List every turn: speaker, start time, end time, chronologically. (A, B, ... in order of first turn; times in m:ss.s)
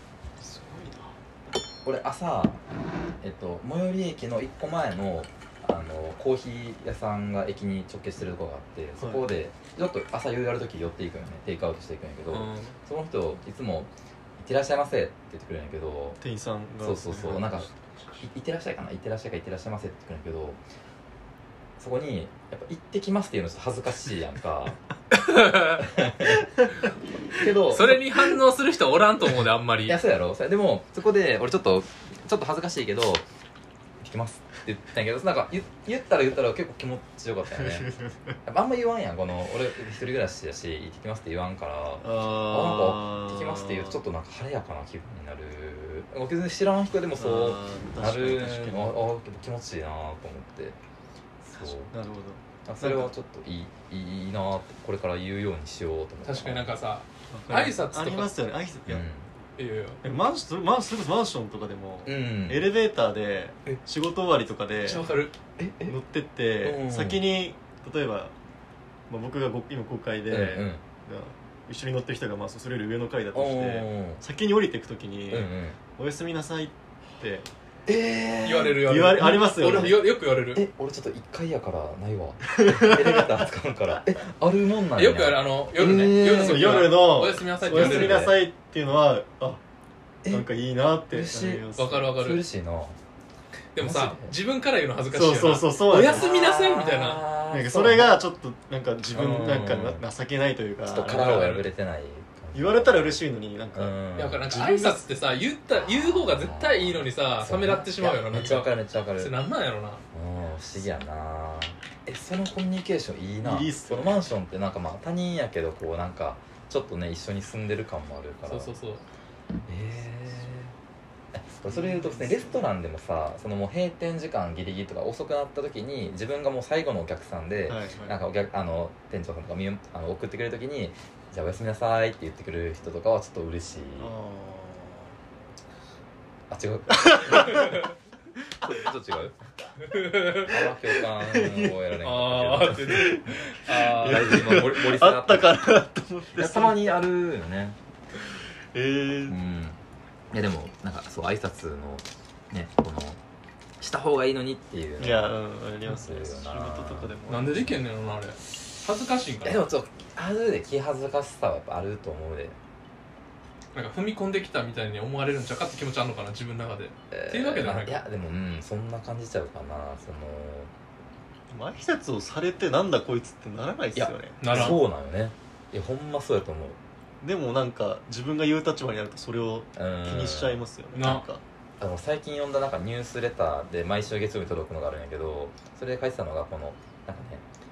0:00.4-0:01.1 A
0:01.8-0:02.6 B
0:03.2-0:16.2 B
0:09.0-0:09.2 A
0:12.3-0:12.8 C
0:16.2-0:17.7 A
0:16.8-0:17.7 B
0:18.2-0:20.6 B
0:21.8-0:24.8 B
0:25.1-0:25.9 C
0:25.8-0:26.5 B
0:27.3-0:28.3 B
0:27.7-0:30.0 C
0:29.8-0:33.2 B
0:34.0-0:37.9 B
0:37.5-0:38.4 A
0:38.5-0:50.8 B
0:42.0-0:44.0 A
0:47.2-0:49.0 A
0:51.4-0:51.9 B
0:51.6-0:53.1 A
0:52.6-0:56.7 B
0:56.2-0:58.3 C
0:57.3-0:59.1 A
0:58.9-0:59.3 B
0:59.6-1:00.0 C
1:00.0-1:05.0 A
1:02.1-1:02.7 B
1:04.8-1:05.3 C
1:05.6-1:06.0 B
1:05.9-1:08.3 A
1:06.6-1:07.2 B
1:09.1-1:17.5 A
1:10.3-1:10.8 B
1:13.3-1:14.2 B
1:15.3-1:15.8 B
1:17.9-1:27.0 B
1:18.4-1:20.6 C
1:18.8-1:20.0 A
1:22.6-1:23.4 A
1:24.9-1:28.3 C
1:26.2-1:29.6 A
1:27.6-1:28.4 B
1:30.3-1:32.1 A
1:31.0-1:33.0 B
1:31.8-1:32.4 C
1:33.7-1:37.2 C
1:33.8-1:34.4 B
1:35.1-1:36.3 A
1:35.9-1:38.2 B
1:37.5-1:41.3 A
1:39.1-1:40.0 B
1:40.9-1:43.2 B
1:41.1-1:41.7 C
1:42.5-1:45.0 A
1:43.7-1:44.5 B
1:44.2-1:50.0 C
1:45.7-1:49.3 B
1:50.1-1:58.7 B
1:53.4-1:54.3 A
1:58.5-1:59.0 C
1:59.7-2:00.7 B
2:01.3-2:14.1 B
2:01.7-2:02.7 A
2:07.7-2:08.2 A
2:14.0-2:15.2 A
2:16.5-2:17.8 B
2:17.0-2:17.8 A
2:18.6-2:19.4 B
2:19.8-2:20.6 C
2:20.4-2:23.1 B
2:20.9-2:21.8 A
2:22.0-2:24.6 C
2:22.9-2:26.8 A
2:23.9-2:25.6 B
2:26.3-2:27.8 B
2:28.7-2:29.4 A
2:29.3-2:29.8 B
2:30.3-2:33.2 B
2:33.8-2:37.1 B
2:35.0-2:37.7 A
2:37.3-2:39.6 C
2:39.4-2:42.6 B
2:43.7-2:48.0 C
2:47.1-2:50.7 B
2:51.5-2:54.8 A
2:54.0-2:56.8 B
2:54.4-2:54.8 C
2:57.2-3:01.4 A
2:59.8-3:01.1 B
3:00.9-3:01.3 C
3:01.8-3:07.4 B